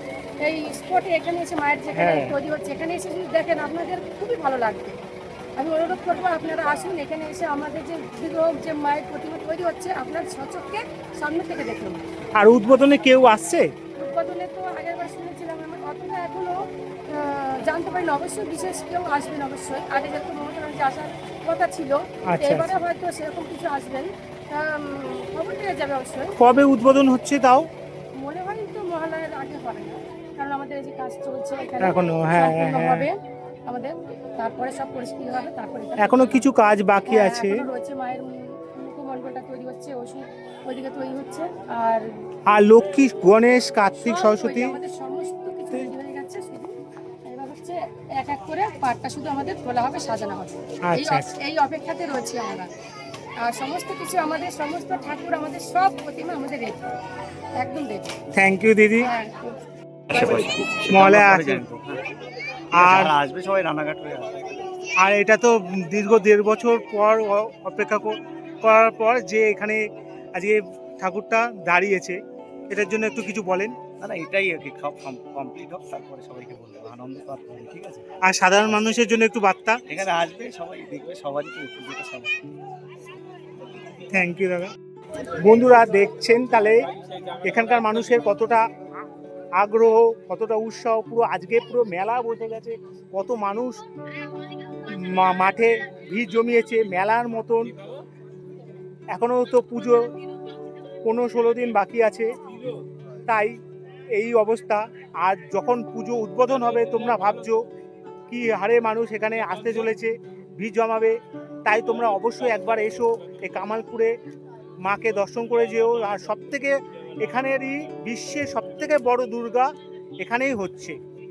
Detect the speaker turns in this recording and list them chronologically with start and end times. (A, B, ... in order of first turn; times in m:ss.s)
0:00.4-0:05.0 A
0:01.9-0:02.4 B
0:05.6-0:12.0 A
0:12.4-0:13.7 B
0:14.0-0:26.4 A
0:22.3-0:22.8 B
0:26.4-0:27.7 B
0:28.2-0:36.4 A
0:31.8-0:33.1 B
0:36.0-0:37.6 B
0:37.1-0:42.1 A
0:42.5-0:44.8 B
0:44.0-0:46.8 A
0:47.3-0:52.7 A
0:50.8-0:51.3 B
0:53.4-0:56.8 A
0:57.6-0:58.1 A
0:58.3-0:59.1 B
0:59.0-0:59.5 A
1:00.1-1:02.0 C
1:00.9-1:01.6 B
1:02.7-1:03.2 B
1:02.7-1:04.3 C
1:05.0-1:09.8 B
1:10.4-1:12.2 B
1:12.7-1:13.7 B
1:14.0-1:18.0 C
1:18.2-1:19.8 B
1:19.9-1:22.3 C
1:24.1-1:24.7 B
1:25.4-1:26.9 B
1:27.4-1:28.6 B
1:29.6-1:33.8 B
1:34.9-1:37.8 B
1:39.1-1:40.0 B
1:41.0-1:42.3 B
1:43.3-1:43.5 B
1:44.1-1:47.6 B
1:48.3-1:54.1 B
1:54.8-2:01.0 B